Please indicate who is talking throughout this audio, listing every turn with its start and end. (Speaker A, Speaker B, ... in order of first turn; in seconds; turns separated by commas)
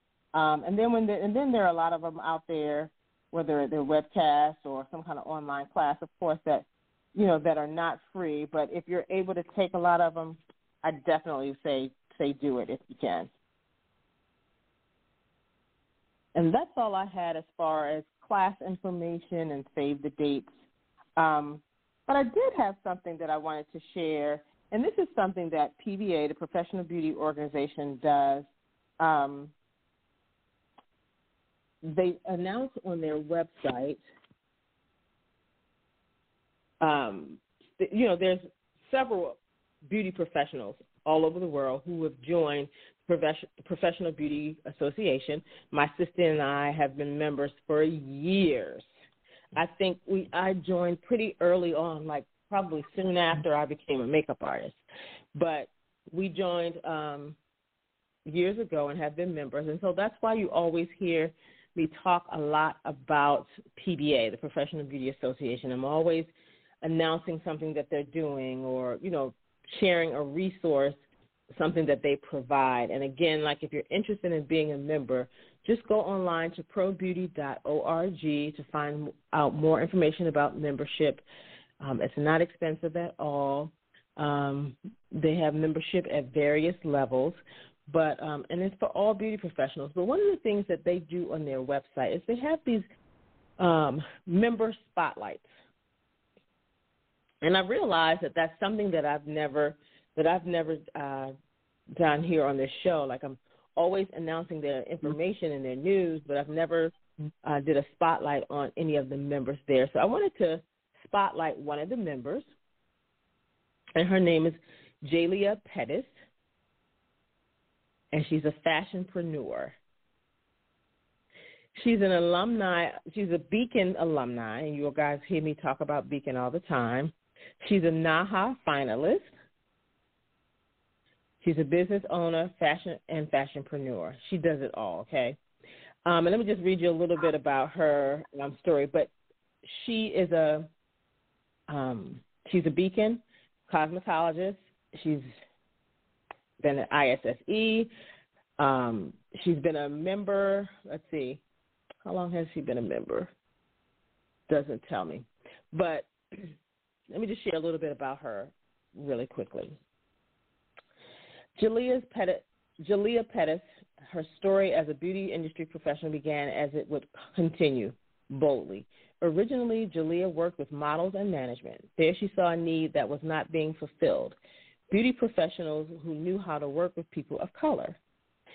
Speaker A: 0.3-13.3, Speaker A: 16.4-20.5, Speaker A: 21.2-28.5, Speaker A: 29.0-29.5, Speaker A: 31.8-34.0, Speaker A: 36.8-48.9, Speaker A: 49.5-54.8, Speaker A: 55.4-57.4, Speaker A: 58.3-66.3, Speaker A: 66.8-71.0, Speaker A: 71.5-81.2, Speaker A: 81.8-92.9, Speaker A: 93.6-95.5, Speaker A: 97.4-101.3, Speaker A: 102.0-112.5, Speaker A: 114.0-116.1, Speaker A: 118.1-119.8, Speaker A: 121.8-129.3, Speaker A: 131.4-135.4, Speaker A: 136.1-139.1, Speaker A: 139.6-140.7, Speaker A: 141.7-145.3, Speaker A: 146.6-147.9, Speaker A: 148.6-151.4, Speaker A: 152.0-153.3, Speaker A: 154.5-156.5, Speaker A: 157.1-159.8, Speaker A: 161.6-174.4, Speaker A: 174.9-178.0